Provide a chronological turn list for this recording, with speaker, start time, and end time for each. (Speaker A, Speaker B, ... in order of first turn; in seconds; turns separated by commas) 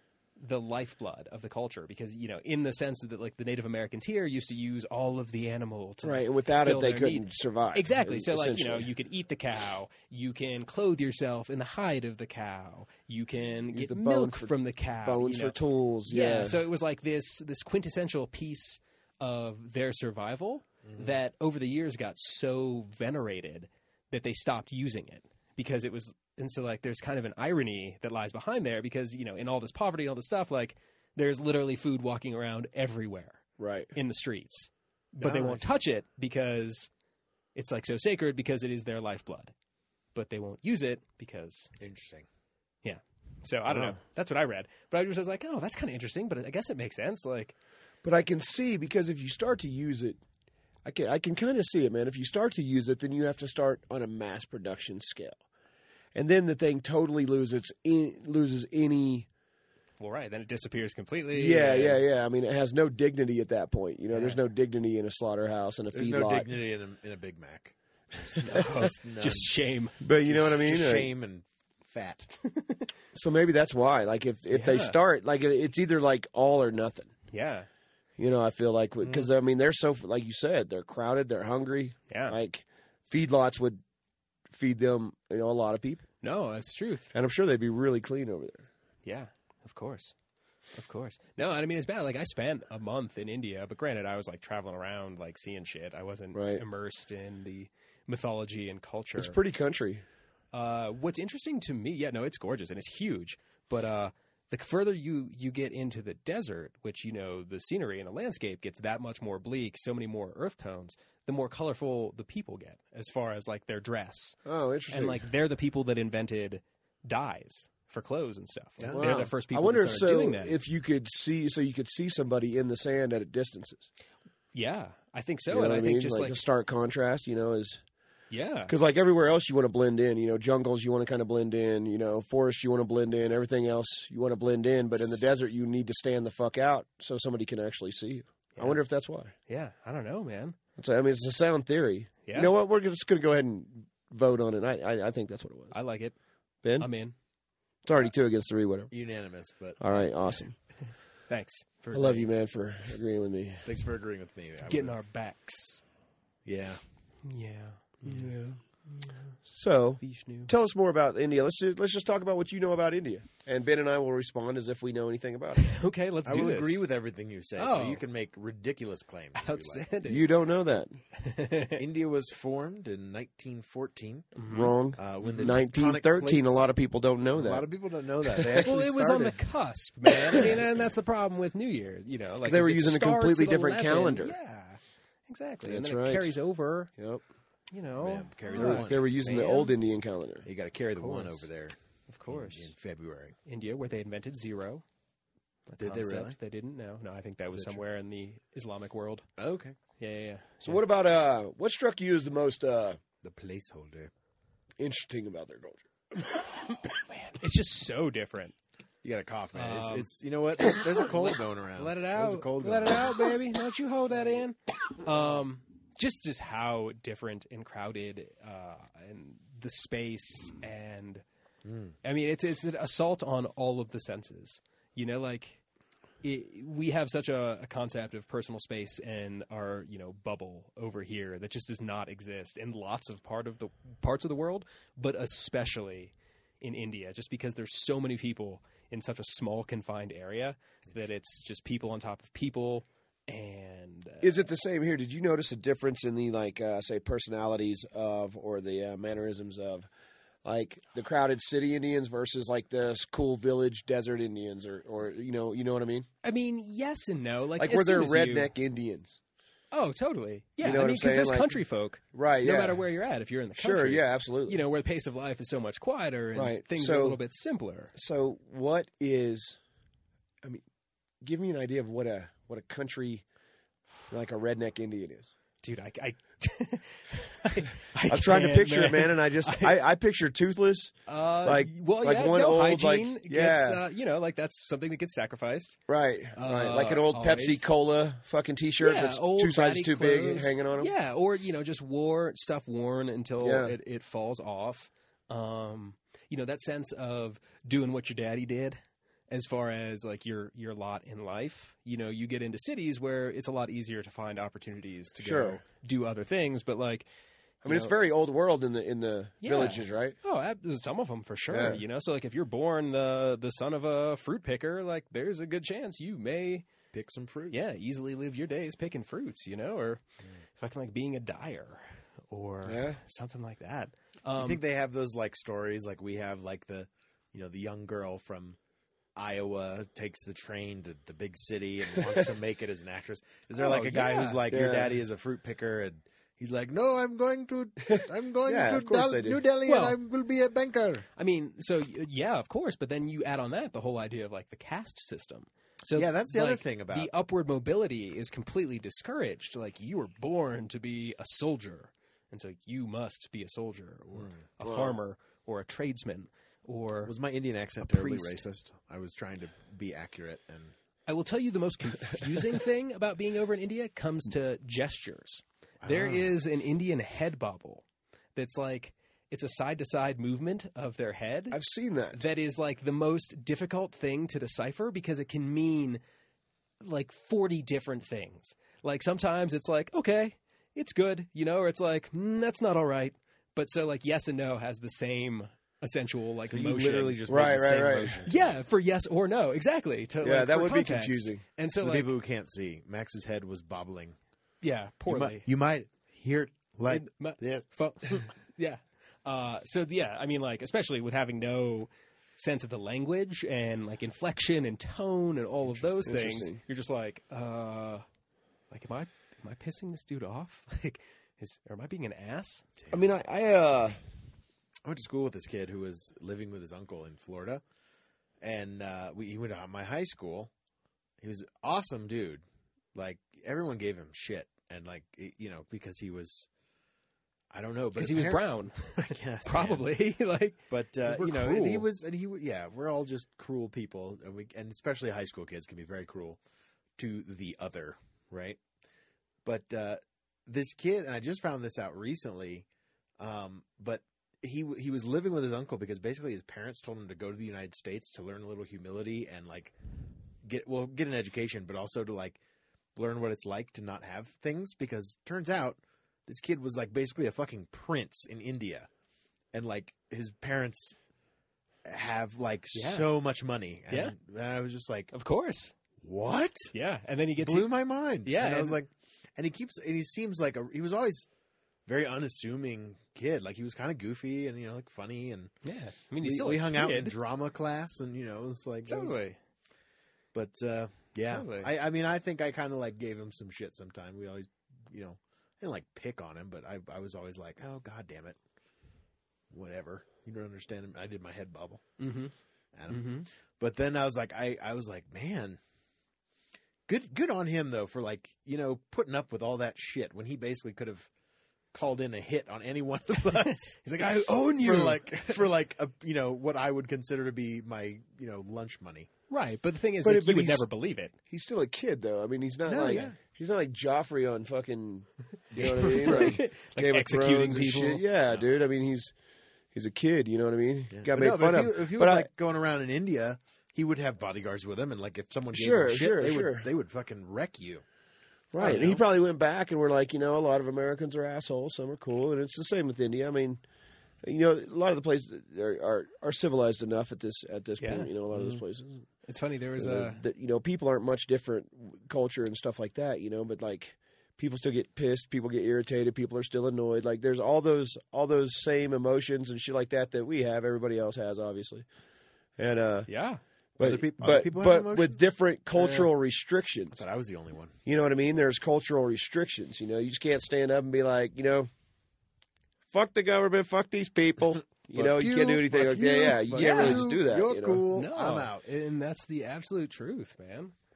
Speaker A: 0.4-33.4, Speaker B: 6.0-8.9, Speaker B: 13.7-16.6, Speaker C: 20.8-21.2, Speaker B: 33.6-33.9, Speaker A: 33.9-36.9, Speaker C: 35.2-35.7, Speaker A: 37.5-39.5, Speaker A: 40.1-41.7, Speaker C: 41.8-42.2, Speaker A: 42.8-47.5, Speaker B: 48.0-50.2, Speaker B: 50.8-55.4, Speaker B: 56.1-59.3, Speaker A: 60.0-62.0, Speaker B: 61.3-66.5, Speaker C: 65.9-69.5, Speaker A: 68.4-70.0, Speaker B: 70.0-71.1, Speaker C: 70.3-72.3, Speaker A: 72.4-72.8, Speaker B: 73.1-77.1, Speaker A: 74.5-75.0, Speaker A: 77.3-77.7, Speaker B: 78.2-83.8, Speaker A: 82.1-82.4, Speaker B: 84.5-86.0, Speaker A: 86.2-87.1, Speaker B: 87.1-88.7, Speaker A: 89.0-90.1, Speaker A: 90.7-99.4, Speaker B: 96.3-96.6, Speaker B: 99.2-100.0, Speaker A: 100.5-114.4, Speaker B: 114.4-115.2, Speaker A: 114.9-120.6, Speaker C: 118.8-119.2, Speaker B: 118.9-123.9, Speaker A: 124.5-126.4, Speaker B: 125.5-127.8, Speaker A: 128.3-128.7, Speaker B: 128.7-139.3, Speaker A: 134.9-135.2, Speaker A: 139.5-140.6, Speaker B: 140.8-145.7, Speaker A: 142.2-142.5, Speaker A: 145.7-146.1, Speaker B: 146.6-146.9, Speaker A: 146.8-147.1, Speaker B: 147.8-148.9, Speaker C: 148.9-150.3, Speaker B: 149.8-150.5, Speaker A: 151.3-152.3, Speaker B: 151.9-153.7, Speaker C: 153.6-155.0, Speaker A: 154.6-155.8, Speaker C: 156.4-156.8, Speaker A: 157.2-158.2, Speaker B: 158.0-158.6, Speaker A: 158.9-159.3, Speaker B: 159.5-165.7, Speaker A: 160.0-160.5, Speaker A: 165.6-166.8, Speaker C: 166.2-169.8, Speaker A: 167.6-168.0, Speaker A: 169.3-170.3, Speaker B: 170.1-171.0, Speaker A: 171.1-171.8, Speaker C: 171.8-174.4, Speaker A: 174.3-175.6, Speaker B: 174.5-177.7, Speaker C: 174.9-176.7, Speaker C: 177.3-179.4, Speaker B: 178.3-178.7, Speaker A: 178.6-186.9, Speaker B: 182.4-184.3, Speaker B: 185.6-186.4, Speaker B: 187.0-187.2, Speaker A: 187.7-189.7, Speaker C: 188.0-189.4, Speaker B: 188.5-190.4, Speaker C: 190.4-191.8, Speaker A: 191.0-191.5, Speaker A: 192.1-192.7, Speaker C: 192.3-193.3, Speaker A: 193.4-194.8, Speaker A: 195.7-199.3, Speaker C: 195.8-196.3, Speaker C: 197.5-197.8, Speaker C: 199.4-199.8, Speaker A: 200.0-200.8, Speaker B: 200.6-203.0, Speaker C: 203.2-204.1, Speaker B: 204.8-206.6, Speaker A: 207.2-208.5, Speaker C: 209.0-213.3, Speaker A: 209.5-210.1, Speaker A: 211.0-221.2, Speaker C: 221.6-221.9, Speaker A: 222.0-225.6, Speaker A: 226.2-244.4, Speaker B: 244.2-249.9, Speaker B: 250.4-256.1, Speaker A: 256.2-258.5, Speaker B: 257.6-259.2, Speaker A: 259.7-267.9, Speaker B: 260.6-261.6, Speaker B: 262.1-262.8, Speaker B: 263.6-264.6, Speaker B: 266.3-267.2, Speaker B: 267.9-269.6, Speaker B: 271.2-273.2, Speaker B: 274.1-275.3, Speaker A: 275.6-279.8, Speaker B: 278.1-283.8, Speaker A: 281.1-285.8, Speaker B: 285.9-290.9, Speaker A: 286.3-287.6, Speaker A: 288.8-298.8, Speaker B: 293.4-293.8, Speaker A: 299.3-307.1, Speaker B: 305.2-305.6, Speaker A: 307.6-307.9, Speaker B: 307.6-310.1, Speaker A: 309.4-316.7, Speaker B: 311.5-311.8, Speaker C: 316.9-317.6, Speaker A: 317.5-320.0, Speaker A: 320.6-324.6, Speaker B: 322.6-323.0, Speaker C: 324.4-328.6, Speaker C: 329.1-341.1, Speaker A: 333.6-334.4, Speaker B: 334.5-335.0, Speaker B: 337.9-339.4, Speaker A: 339.6-340.0, Speaker A: 341.1-357.1, Speaker C: 345.9-347.1, Speaker C: 354.1-354.4, Speaker B: 354.6-355.0, Speaker C: 357.1-360.7, Speaker A: 357.8-358.4, Speaker A: 361.1-367.8, Speaker C: 365.8-366.3, Speaker A: 368.4-371.6, Speaker B: 371.5-372.2, Speaker A: 372.1-376.0, Speaker A: 376.8-387.2, Speaker C: 386.5-388.5, Speaker B: 387.3-388.2, Speaker A: 388.2-392.1, Speaker B: 390.2-391.4, Speaker C: 391.8-394.1, Speaker A: 394.6-395.4, Speaker C: 395.1-398.3, Speaker A: 396.9-408.0, Speaker B: 405.6-406.6, Speaker A: 408.7-412.6, Speaker B: 412.9-414.0, Speaker C: 414.8-417.6, Speaker C: 418.4-420.5, Speaker C: 421.2-422.4, Speaker C: 422.9-426.5, Speaker C: 427.5-429.9, Speaker A: 427.9-431.9, Speaker C: 430.7-436.4, Speaker C: 437.0-438.6, Speaker C: 439.4-442.6, Speaker C: 443.2-449.7, Speaker C: 450.4-452.4, Speaker C: 452.9-458.9, Speaker C: 459.5-460.9, Speaker C: 461.8-465.1, Speaker A: 462.7-463.1, Speaker A: 463.9-464.1, Speaker A: 465.1-465.7, Speaker C: 466.0-466.7, Speaker A: 466.7-467.7, Speaker C: 467.4-471.3, Speaker A: 468.2-468.8, Speaker C: 471.9-475.5, Speaker A: 475.6-477.1, Speaker C: 476.2-479.2, Speaker A: 478.9-479.4, Speaker C: 480.3-488.4, Speaker A: 481.1-481.7, Speaker C: 489.5-491.8, Speaker A: 492.0-492.3, Speaker C: 492.7-495.6, Speaker A: 492.9-493.3, Speaker C: 496.9-501.1, Speaker C: 501.7-503.8, Speaker A: 503.1-505.4, Speaker C: 504.6-509.1, Speaker A: 509.3-511.1, Speaker B: 510.0-510.7, Speaker B: 511.3-519.1, Speaker C: 512.7-513.2, Speaker C: 515.6-516.4, Speaker A: 515.6-518.0, Speaker B: 519.7-522.3, Speaker C: 520.9-527.8, Speaker B: 525.5-526.7, Speaker B: 528.5-533.6, Speaker C: 528.6-529.0, Speaker B: 534.2-539.1, Speaker A: 537.8-538.1, Speaker C: 538.3-538.6, Speaker A: 539.2-540.2, Speaker B: 539.8-551.9, Speaker B: 552.6-553.1, Speaker A: 553.1-553.4, Speaker B: 553.8-557.0, Speaker C: 553.8-555.2, Speaker C: 555.8-556.1, Speaker C: 556.9-557.7, Speaker B: 557.9-561.7, Speaker B: 562.9-567.8, Speaker C: 564.9-568.6, Speaker A: 566.5-567.0, Speaker A: 567.9-570.7